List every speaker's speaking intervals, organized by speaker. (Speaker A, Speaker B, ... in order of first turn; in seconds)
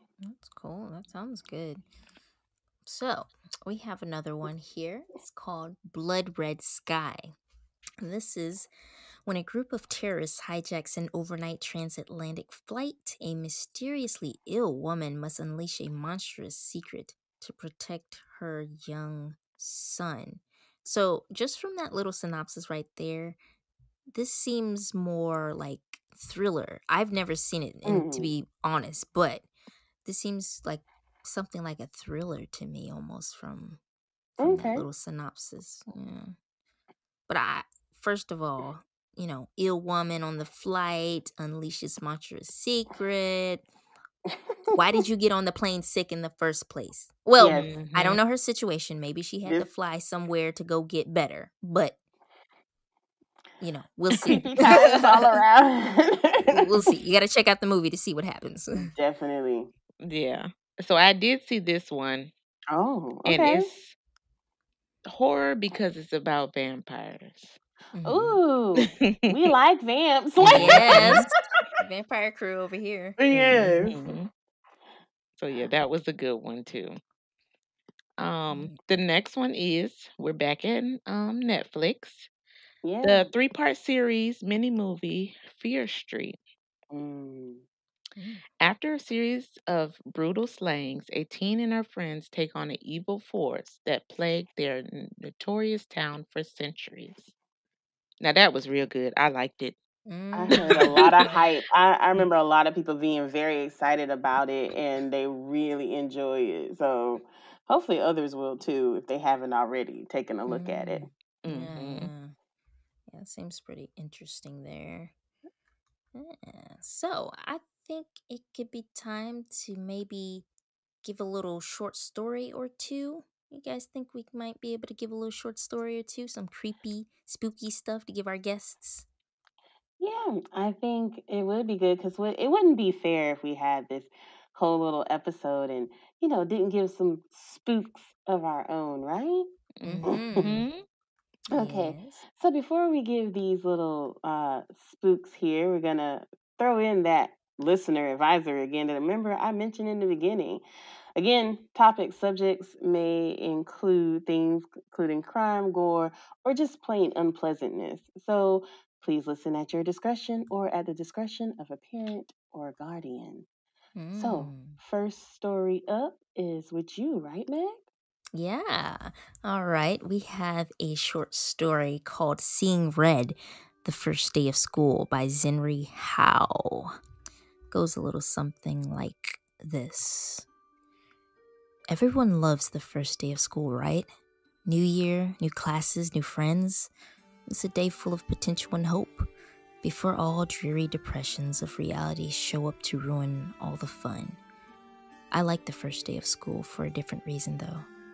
Speaker A: 0.2-1.8, 2.8-7.3, 8.0-8.7, 9.2-23.4, 24.1-29.4, 30.0-33.8, 34.4-36.4, 37.3-43.6, 44.7-52.0, 53.6-55.0, 56.5-58.9, 67.9-68.4, 70.4-73.9, 78.5-78.7, 88.2-88.4, 100.0-101.3, 110.5-112.3, 113.1-115.1, 116.1-120.5, 121.0-129.1, 139.8-140.6, 141.5-142.2, 163.9-164.8, 168.3-177.0, 177.7-180.5, 181.9-184.1, 184.6-186.9, 187.4-189.2, 189.8-194.4, 195.3-197.9
Speaker B: 27.9-28.3, 34.4-34.9, 44.3-44.8, 47.4-47.7, 54.3-56.7, 58.7-59.7, 62.7-63.7, 68.0-71.3, 73.2-74.2, 82.8-83.3, 86.9-87.7, 100.3-111.1, 130.0-139.5, 140.1-140.6, 141.5-150.6, 151.2-163.4, 164.1-167.8
Speaker C: 47.5-48.2, 60.0-62.3, 63.2-64.0, 65.0-67.6, 68.8-69.2, 70.4-71.3, 73.8-74.3, 75.4-77.0, 78.2-82.3, 83.0-86.4, 88.6-97.3, 98.2-99.8, 100.5-101.3, 111.4-112.1, 139.8-140.8